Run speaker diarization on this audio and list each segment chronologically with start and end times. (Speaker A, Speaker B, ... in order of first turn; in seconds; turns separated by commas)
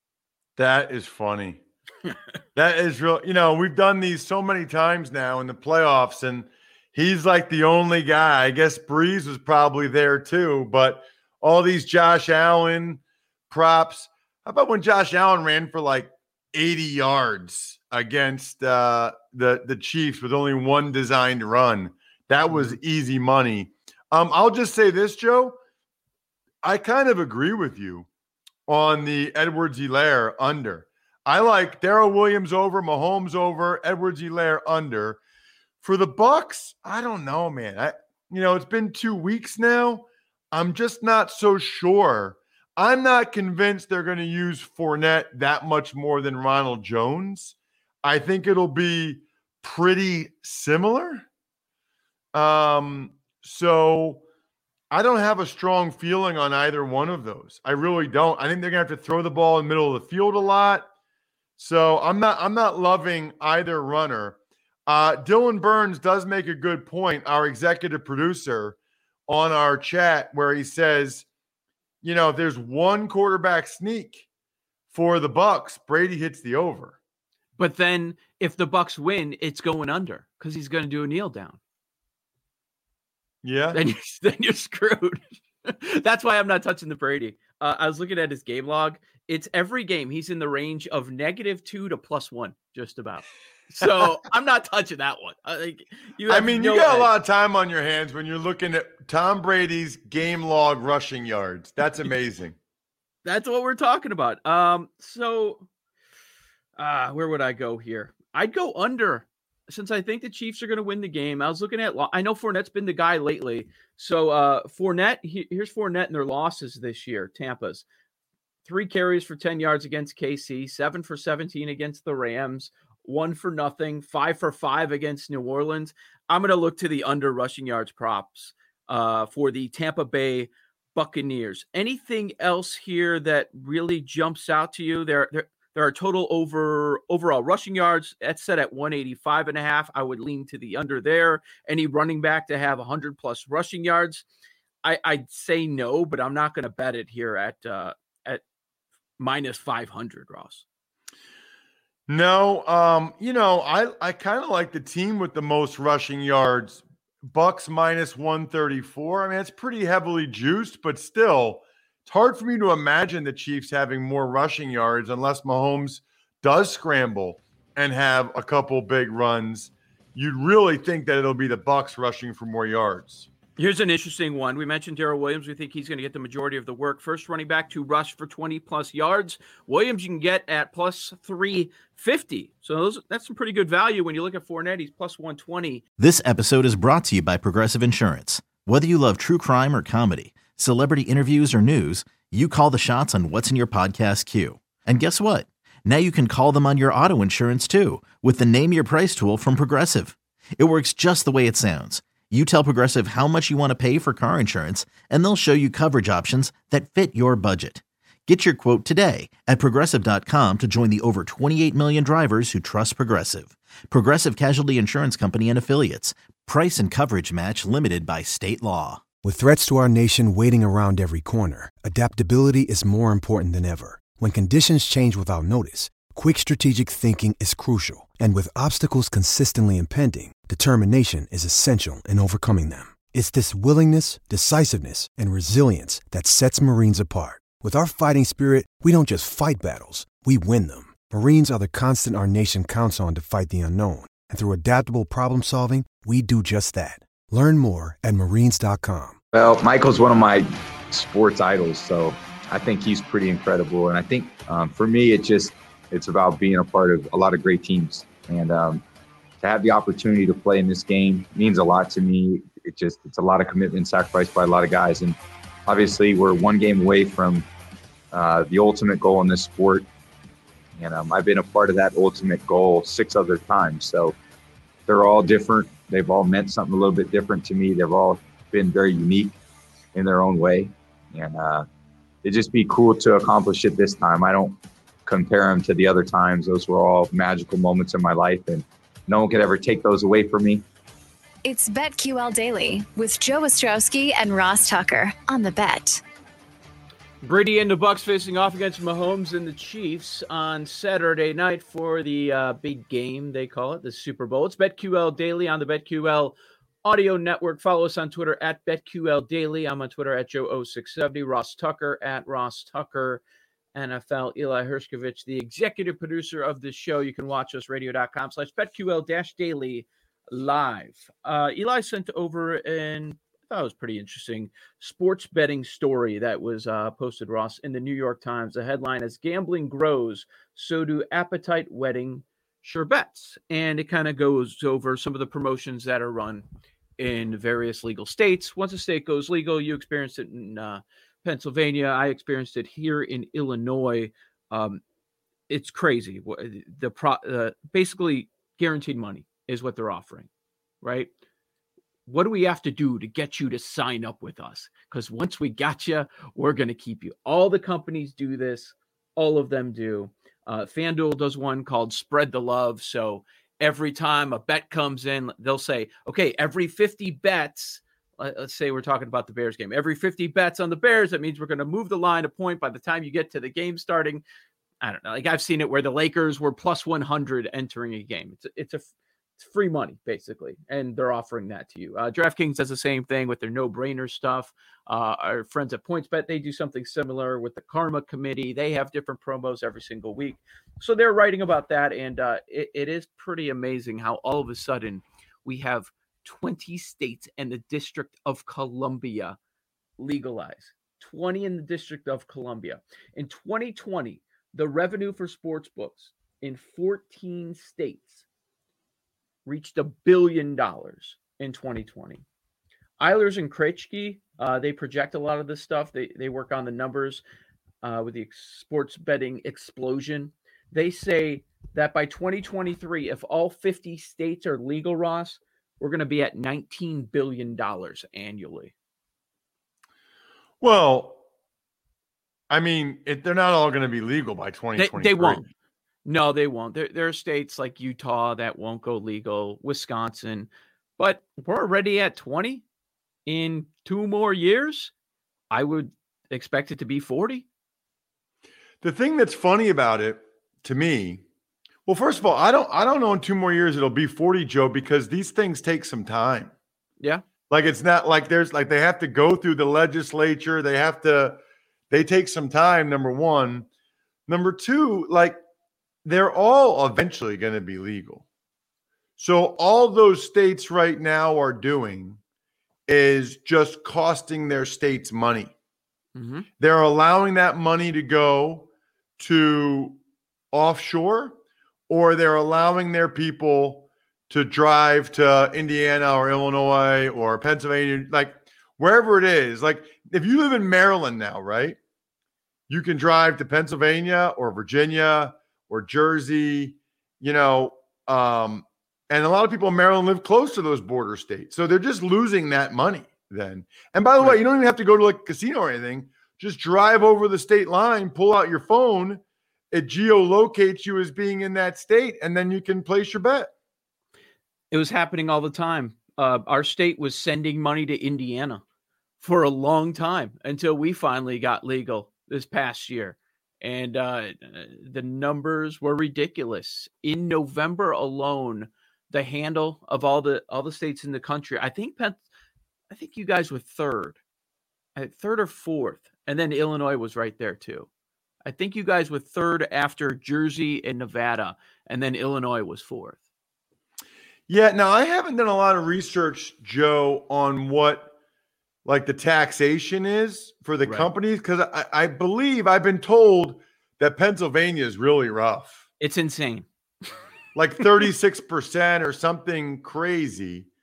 Speaker A: 0.6-1.6, Speaker A: 2.5-25.6, Speaker B: 22.5-22.8, Speaker A: 26.6-28.1, Speaker A: 28.7-35.2, Speaker A: 35.8-51.2, Speaker A: 52.3-54.2, Speaker A: 54.9-60.9, Speaker A: 61.6-68.8, Speaker A: 69.3-71.3, Speaker A: 72.0-74.3, Speaker A: 74.9-77.0, Speaker B: 77.6-81.6, Speaker A: 83.4-83.8, Speaker B: 83.7-97.1, Speaker A: 96.3-102.6, Speaker B: 103.2-105.7, Speaker B: 106.8-117.8, Speaker B: 118.7-144.2, Speaker B: 144.8-148.4, Speaker B: 149.2-150.6, Speaker A: 152.1-173.3, Speaker B: 173.6-185.8, Speaker C: 186.0-219.0, Speaker D: 219.2-249.2, Speaker E: 249.3-258.8, Speaker E: 259.4-267.5, Speaker E: 268.1-269.9, Speaker E: 270.8-274.1, Speaker E: 274.9-279.4, Speaker E: 279.9-281.7, Speaker E: 282.2-290.6, Speaker F: 291.4-296.0, Speaker B: 297.2-313.2, Speaker B: 313.8-336.4, Speaker B: 337.0-344.8, Speaker B: 345.5-350.3, Speaker B: 350.8-351.1, Speaker B: 352.1-374.2, Speaker B: 374.8-378.9, Speaker B: 379.4-399.4, Speaker B: 400.0-408.2, Speaker B: 409.5-412.2, Speaker B: 413.0-417.2, Speaker B: 417.8-428.7, Speaker A: 430.6-431.2, Speaker A: 432.5-435.5, Speaker B: 434.8-435.5, Speaker B: 436.1-442.6, Speaker B: 443.3-444.9, Speaker B: 445.5-447.4, Speaker A: 448.8-451.2, Speaker A: 451.9-456.5, Speaker A: 457.5-461.4, Speaker A: 461.9-463.7, Speaker A: 464.3-465.4, Speaker A: 466.1-468.2, Speaker A: 469.2-472.2, Speaker A: 472.9-475.5, Speaker B: 476.1-476.5, Speaker A: 476.6-478.7, Speaker A: 479.2-480.0, Speaker A: 480.5-481.4, Speaker A: 481.9-491.8, Speaker A: 492.7-509.2, Speaker A: 509.7-513.5, Speaker B: 514.7-518.6, Speaker B: 519.2-532.2, Speaker B: 532.9-534.2, Speaker B: 535.0-537.9, Speaker B: 538.5-543.2, Speaker A: 544.5-548.1, Speaker A: 548.9-555.8, Speaker B: 550.9-551.1, Speaker B: 556.0-556.7, Speaker A: 557.5-560.7